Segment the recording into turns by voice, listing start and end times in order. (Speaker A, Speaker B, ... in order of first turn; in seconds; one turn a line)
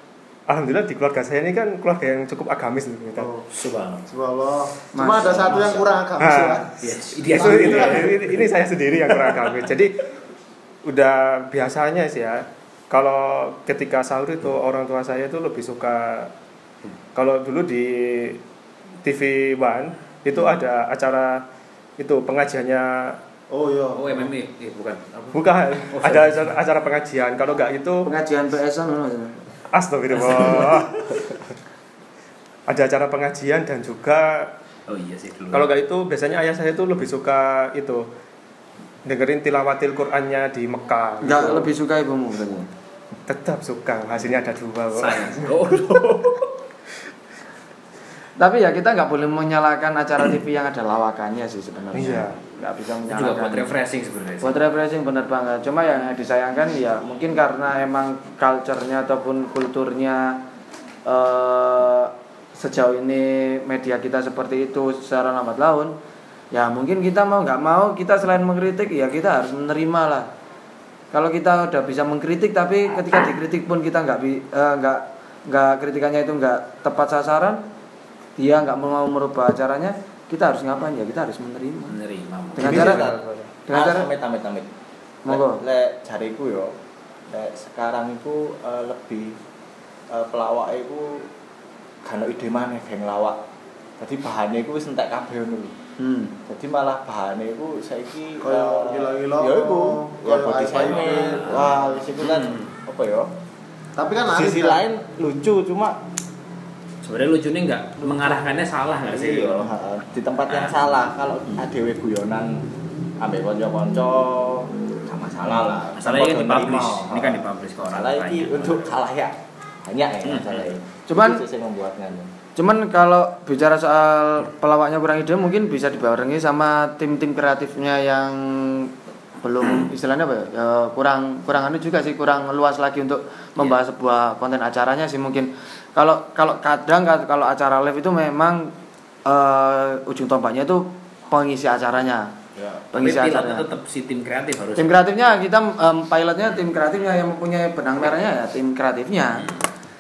Speaker A: 0.5-3.3
Speaker B: 3.2-3.5
Speaker C: 3.5-4.0
Speaker B: 4.1-6.7
Speaker D: 4.9-5.7
Speaker C: 5.2-6.0
Speaker A: 6.2-6.8
Speaker C: 6.8-8.2
Speaker B: 7.3-8.1
Speaker A: 7.3-10.0
Speaker A: 10.8-16.3
Speaker A: 17.1-18.4
Speaker A: 19.0-21.4
Speaker A: 22.0-23.2
Speaker B: 23.5-24.3
Speaker C: 23.9-26.5
Speaker A: 25.3-28.1
Speaker D: 28.1-29.4
Speaker A: 29.7-31.1
Speaker A: 32.7-34.5
Speaker C: 34.9-35.7
Speaker A: 35.5-38.1
Speaker A: 39.0-41.7
Speaker D: 41.2-42.7
Speaker A: 43.3-45.6
Speaker C: 45.0-46.5
Speaker D: 48.4-53.7
Speaker A: 51.9-52.4
Speaker C: 53.1-54.6
Speaker D: 54.4-60.4
Speaker D: 61.1-65.9
Speaker D: 66.5-70.3
Speaker D: 71.1-77.6
Speaker D: 78.4-82.0
Speaker C: 81.9-83.0
Speaker D: 82.6-83.1
Speaker E: 82.6-84.7
Speaker A: 82.6-83.5
Speaker D: 83.7-84.1
Speaker D: 85.2-85.6
Speaker E: 85.3-86.8
Speaker E: 87.3-89.4
Speaker E: 90.1-91.3
Speaker E: 92.0-93.4
Speaker E: 94.0-95.8
Speaker D: 96.0-96.4
Speaker E: 96.5-103.3
Speaker B: 98.4-101.8
Speaker C: 100.8-102.7
Speaker B: 104.0-104.8
Speaker E: 104.3-106.0
Speaker C: 107.0-109.7
Speaker E: 108.0-108.5
Speaker E: 109.0-112.7
Speaker C: 110.5-110.8
Speaker E: 113.2-122.3
Speaker C: 115.9-119.0
Speaker C: 120.2-120.7
Speaker D: 121.1-121.4
Speaker D: 122.6-128.9
Speaker D: 129.4-138.7
Speaker D: 139.3-142.3
Speaker E: 142.6-142.8
Speaker D: 142.9-143.7
Speaker C: 143.0-145.0
Speaker D: 144.8-149.5
Speaker C: 149.4-149.7